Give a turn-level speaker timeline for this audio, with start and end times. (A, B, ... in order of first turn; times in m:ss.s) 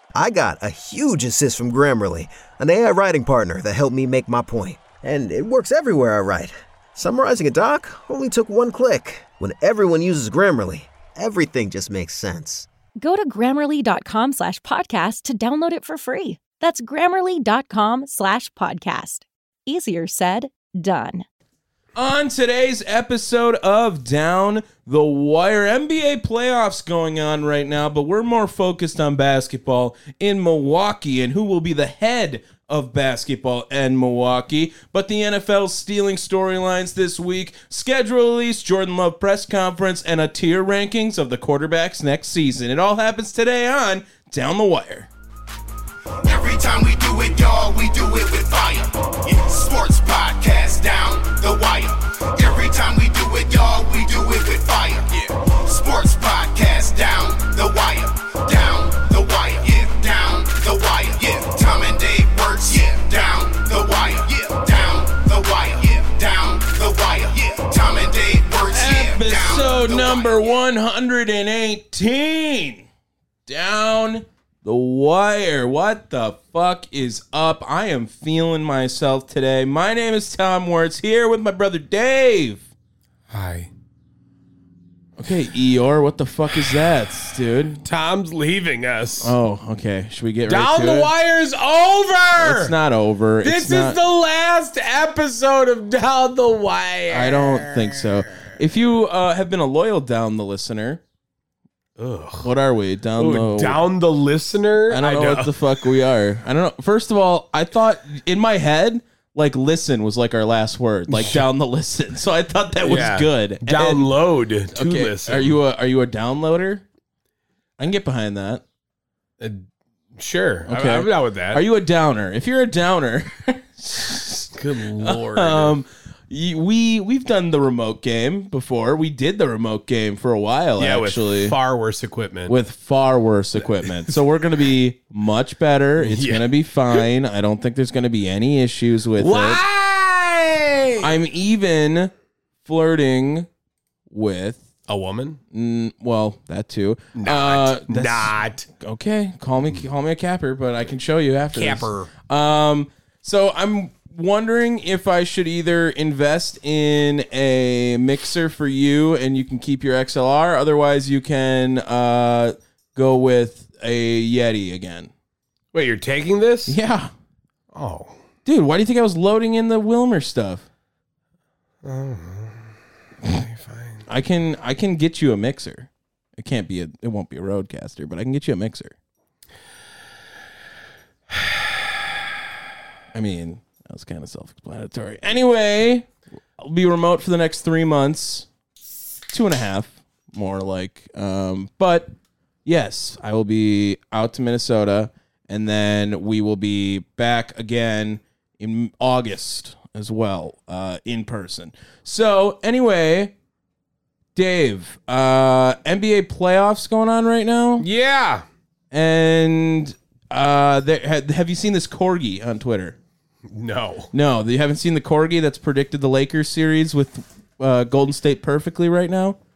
0:00.2-0:12.7 A
0:13.0-0:21.2 B
0:22.0-0:45.1 C
0:46.2-1:10.4 D
1:08.7-1:12.9 C
1:13.4-1:22.7 C
1:23.3-1:23.7 E
1:25.2-1:27.8 C
1:27.8-1:29.3 E
1:29.2-1:31.1 C
1:30.5-1:32.7 E
1:32.4-1:34.0 C
1:33.4-1:38.6 E
1:37.1-1:41.0 C
1:42.0-1:42.5 E
1:42.4-1:43.8 C
1:43.2-1:45.8 E
1:44.9-1:54.1 C
1:51.1-1:51.4 E
1:52.8-1:55.6 E
1:54.7-1:56.8 C
1:57.8-1:58.6 C
1:59.4-1:59.6 E
2:00.2-2:01.6 E
2:00.7-2:11.6 C
2:04.6-2:05.8 E
2:10.8-2:12.6 E
2:12.5-2:19.6 C
2:13.9-2:14.1 E
2:16.0-2:17.0 E
2:19.2-2:21.1 E
2:21.0-2:22.1 C
2:22.6-2:23.5 C
2:24.1-2:24.7 C
2:24.9-2:25.4 E
2:25.5-2:45.1 C
2:27.1-2:28.6 E
2:31.5-2:32.1 E
2:45.7-2:46.8 E
2:46.7-2:47.1 C
2:47.7-2:48.2 E
2:48.4-2:50.6 C
2:51.8-2:52.7 E
2:53.3-2:54.1 E
2:54.1-2:58.9 C
3:03.1-3:08.5 C
3:09.3-3:12.1 C
3:12.6-3:23.3 C
3:24.4-3:27.9 C
3:27.8-3:28.4 E
3:28.9-3:33.0 C
3:33.5-3:34.1 E
3:34.1-3:39.4 C